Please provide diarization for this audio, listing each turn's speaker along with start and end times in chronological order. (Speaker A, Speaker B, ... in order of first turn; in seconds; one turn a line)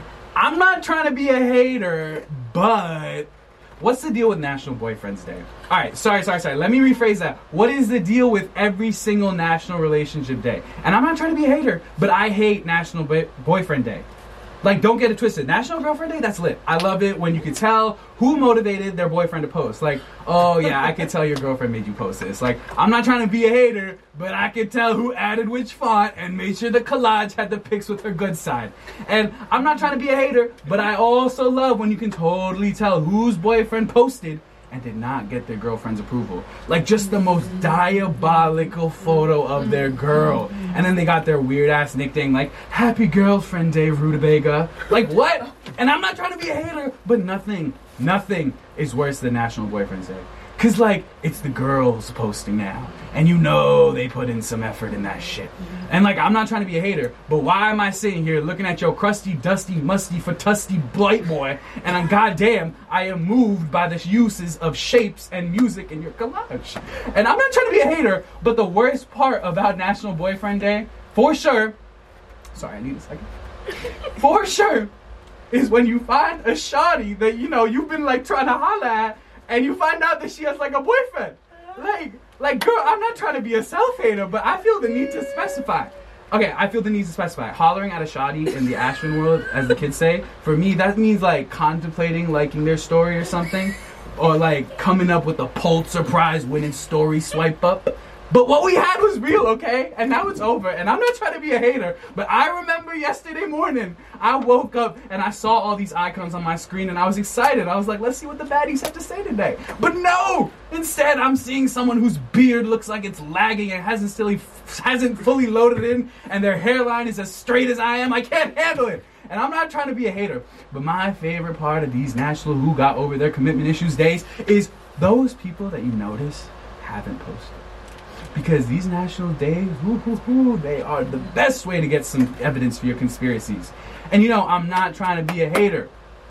Speaker A: 0.3-14.1
Speaker A: 14.6-71.8
Speaker A: 72.5-73.2
Speaker A: 74.2-74.9
Speaker A: 75.5-127.6
Speaker A: 128.3-135.9